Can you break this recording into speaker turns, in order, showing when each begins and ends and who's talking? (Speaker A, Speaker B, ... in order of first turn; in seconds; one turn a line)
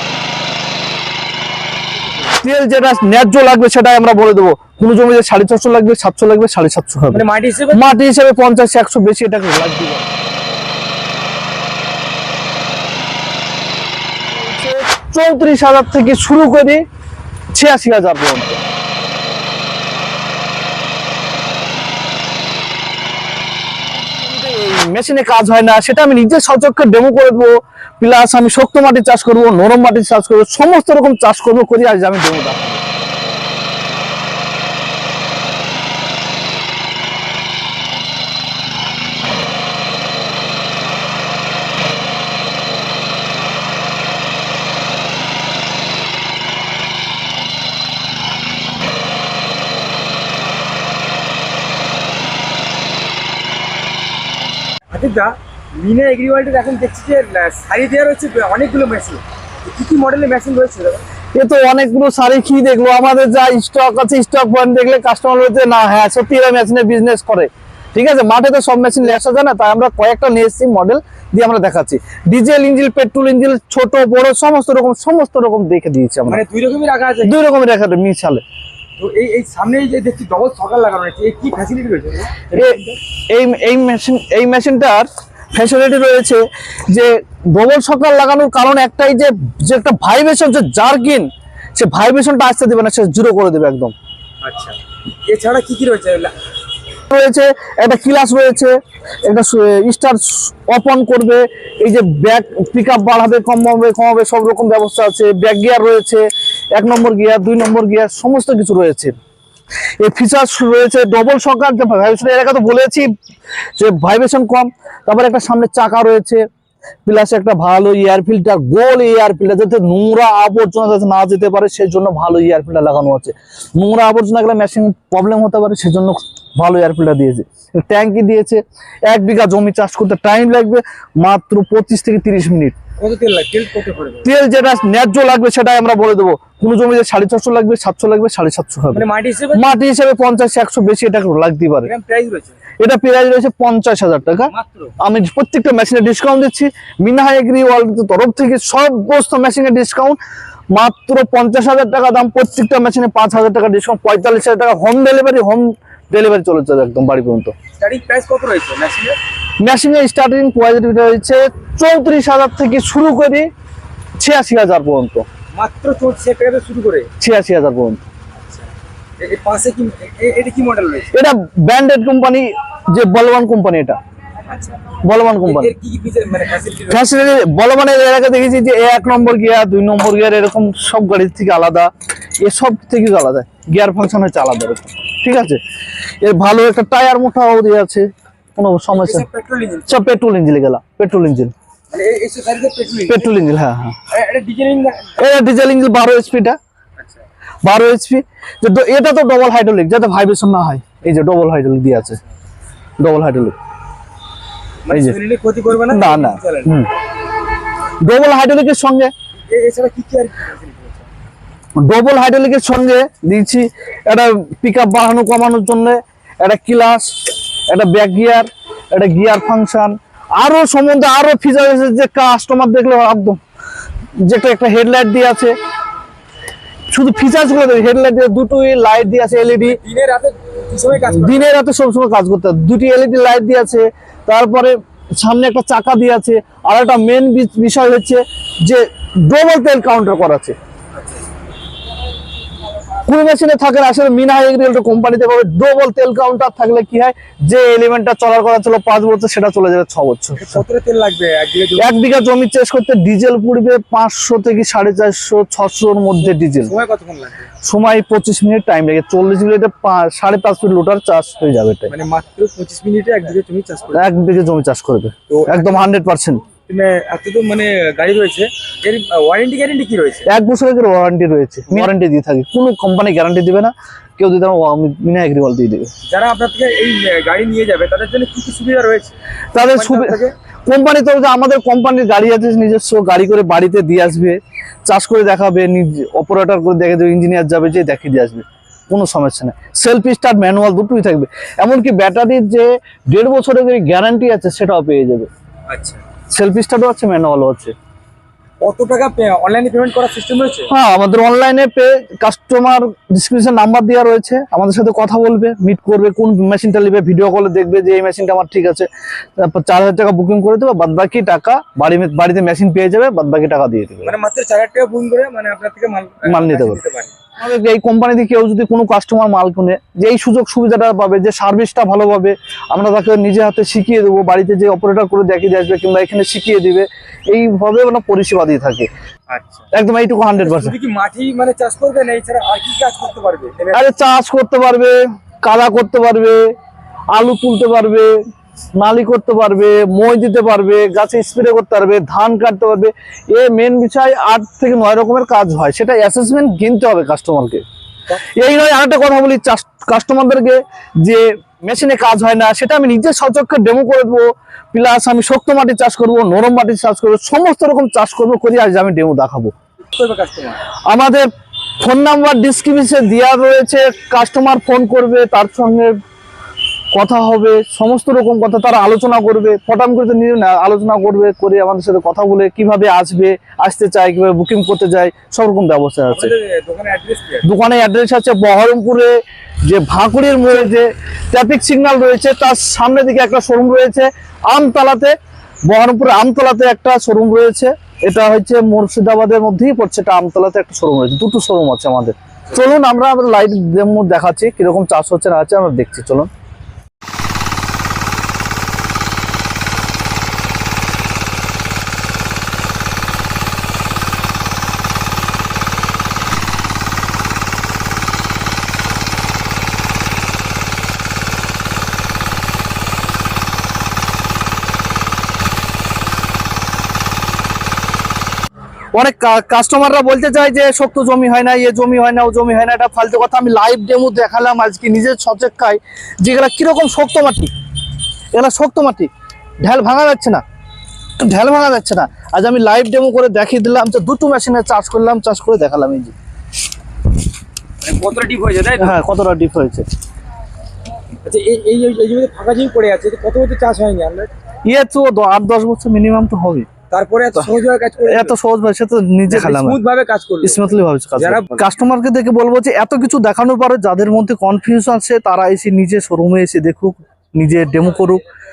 Speaker A: 2.3-10.1
Speaker B: 7.1-7.9
Speaker A: 14.3-16.8
Speaker A: 17.5-18.6
Speaker A: 24.2-32.8
Speaker B: 54.9-61.1
Speaker A: 61.3-76.4
Speaker B: 76.3-77.4
Speaker A: 77.2-78.4
Speaker B: 79.0-83.0
Speaker A: 83.3-93.9
Speaker B: 94.4-96.3
Speaker A: 97.1-109.2
Speaker A: 110.0-113.1
Speaker A: 113.8-116.4
Speaker A: 117.1-132.8
Speaker B: 133.0-134.3
Speaker A: 134.2-141.9
Speaker B: 138.9-139.7
Speaker B: 141.8-142.6
Speaker A: 142.8-150.2
Speaker B: 144.5-144.9
Speaker A: 150.7-157.5
Speaker B: 157.8-159.2
Speaker A: 159.6-163.5
Speaker A: 164.2-165.2
Speaker B: 165.6-167.1
Speaker A: 167.2-168.0
Speaker B: 169.2-171.1
Speaker A: 171.1-174.0
Speaker B: 174.5-174.8
Speaker A: 175.1-175.7
Speaker B: 175.4-177.1
Speaker A: 176.9-185.6
Speaker A: 186.2-189.2
Speaker B: 188.9-190.1
Speaker A: 189.9-191.5
Speaker B: 191.9-193.3
Speaker A: 193.1-194.0
Speaker B: 194.1-195.2
Speaker A: 195.2-196.6
Speaker B: 197.0-197.2
Speaker A: 197.6-202.2
Speaker A: 203.0-203.6
Speaker B: 204.8-206.8
Speaker A: 204.9-205.2
Speaker A: 205.9-206.9
Speaker A: 208.0-209.1
Speaker B: 209.5-211.1
Speaker A: 211.8-223.4
Speaker A: 224.2-225.6
Speaker A: 226.9-229.8
Speaker B: 229.7-231.5
Speaker A: 231.1-240.6
Speaker B: 240.9-241.3
Speaker A: 243.1-250.6
Speaker B: 250.3-251.9
Speaker A: 251.8-256.7
Speaker B: 256.4-257.5
Speaker A: 257.6-261.9
Speaker B: 261.9-264.1
Speaker A: 263.9-266.4
Speaker B: 265.3-265.9
Speaker B: 266.7-270.3
Speaker A: 270.3-275.9
Speaker B: 276.1-280.4
Speaker A: 279.5-295.3
Speaker B: 295.7-296.0
Speaker A: 296.3-297.7
Speaker B: 298.6-300.7
Speaker A: 300.7-314.1
Speaker B: 314.0-317.1
Speaker A: 316.3-316.8
Speaker A: 317.4-328.9
Speaker B: 329.3-329.7
Speaker A: 329.7-330.7
Speaker B: 330.4-333.9
Speaker A: 333.7-336.5
Speaker A: 337.1-338.1
Speaker A: 338.8-347.6
Speaker A: 348.2-359.5
Speaker B: 359.9-360.6
Speaker A: 360.9-361.3
Speaker A: 361.8-366.0
Speaker A: 366.9-376.3
Speaker B: 376.1-377.5
Speaker A: 377.4-379.1
Speaker A: 379.7-385.2
Speaker A: 385.7-396.3
Speaker A: 418.9-427.5
Speaker A: 428.4-429.1
Speaker A: 429.6-430.4
Speaker A: 431.2-436.1
Speaker B: 437.8-439.0
Speaker A: 438.8-439.9
Speaker B: 441.2-444.3
Speaker A: 444.7-446.7
Speaker B: 446.9-448.4
Speaker A: 448.1-449.8
Speaker B: 449.3-451.7
Speaker A: 450.4-458.2